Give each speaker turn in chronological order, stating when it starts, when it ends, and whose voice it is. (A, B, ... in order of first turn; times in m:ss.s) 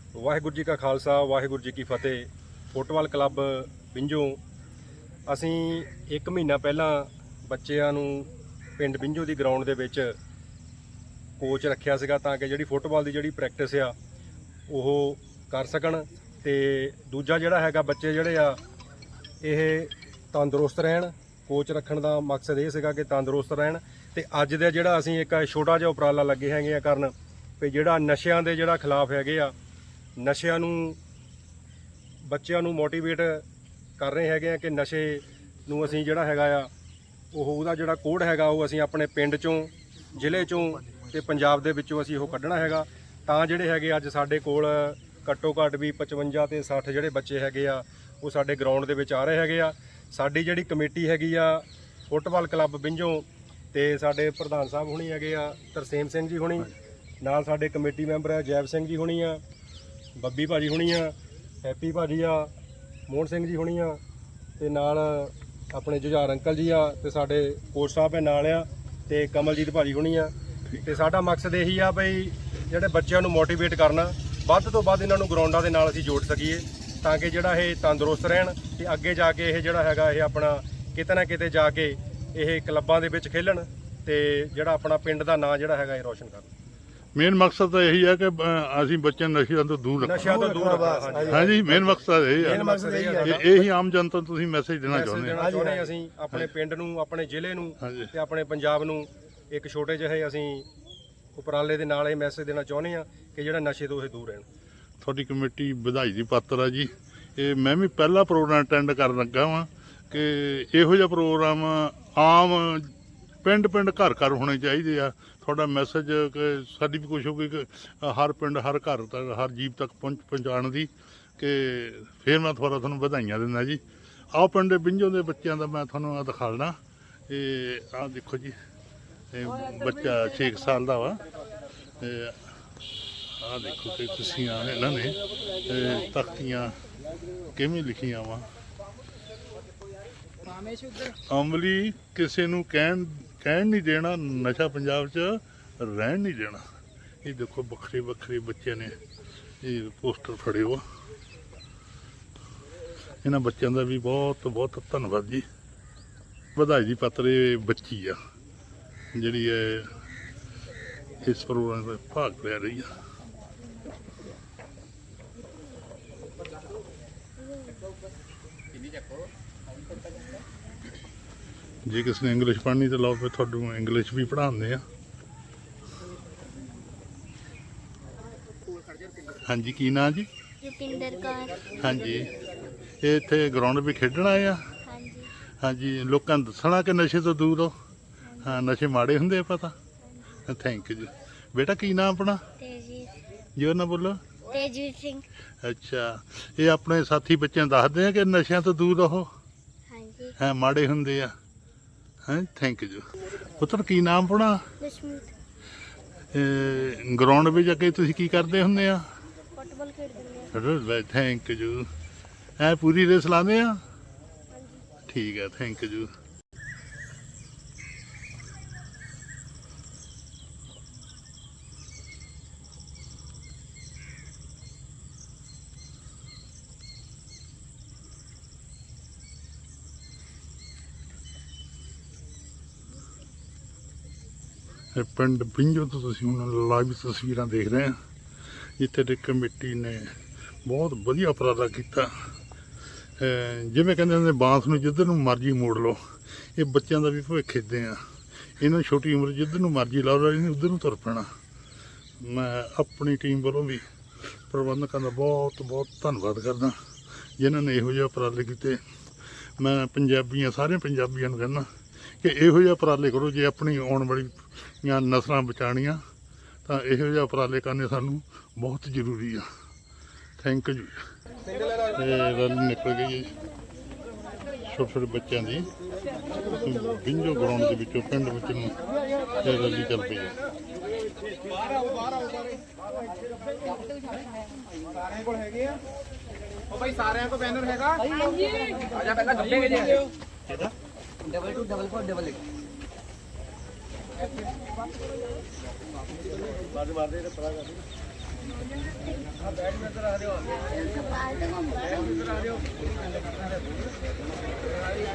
0:00.1-0:04.4 A
0:05.3-0:10.1 A
0:11.4-0:13.9 A
0:14.7-0:18.6 A
0:19.4-0:29.5 A
0:30.2-0:31.0 A
0:32.2-0:33.4 A
0:34.0-0:36.7 A
0:37.3-0:59.4 A
1:00.2-1:02.5 A
1:03.1-1:04.0 A
1:04.6-1:10.3 A
1:10.8-1:26.5 A
1:27.2-1:30.5 B
1:30.0-1:31.7 A
1:30.3-1:31.4 C
1:31.3-1:32.7 B
1:32.4-1:33.4 A
1:32.5-1:33.3 C
1:33.2-1:35.4 B
1:34.9-1:40.7 A
1:35.4-1:35.8 C
1:37.8-1:38.1 B
1:41.4-1:44.4 A
1:45.0-2:03.8 B
2:04.3-2:06.8 B
2:07.3-2:08.5 B
2:09.3-2:11.2 B
2:12.0-2:12.4 B
2:13.4-2:16.7 B
2:17.5-2:18.5 B
2:21.0-2:26.6 B
2:27.2-2:28.9 B
2:29.6-2:30.8 B
2:33.2-2:35.4 B
2:36.6-2:38.2 B
2:39.1-2:39.9 B
2:41.2-2:42.9 B
2:51.8-2:54.8 B
2:59.5-3:00.3 B
3:00.6-3:01.7 D
3:01.7-3:02.4 B
3:03.0-3:04.7 B
3:04.8-3:05.3 D
3:05.6-3:07.7 B
3:08.4-3:09.7 B
3:10.4-3:12.5 B
3:12.6-3:13.1 D
3:13.6-3:14.2 B
3:14.5-3:15.2 D
3:15.6-3:19.3 B
3:19.9-3:20.3 D
3:20.4-3:21.3 B
3:22.3-3:23.0 B
3:23.6-3:24.7 B
3:24.8-3:25.3 D
3:26.3-3:29.0 B
3:29.5-3:30.5 D
3:30.5-3:31.8 B
3:32.6-3:33.8 B
3:35.1-3:36.1 B
3:54.9-3:57.9 B
3:58.8-4:00.1 B
4:00.7-4:02.1 B
4:03.2-4:06.0 B
4:06.6-4:08.0 B
4:08.6-4:11.3 B
4:12.2-4:16.8 B
4:17.4-4:18.8 B
4:19.6-4:21.6 B
4:22.2-4:26.0 B
4:26.6-4:29.4 B
4:30.4-4:31.0 B
4:31.9-4:33.3 B
4:34.7-4:35.7 B
4:36.4-4:38.8 B
4:39.4-4:40.4 B
4:47.0-4:48.0 C
4:49.0-4:50.0 C
5:00.8-5:02.3 D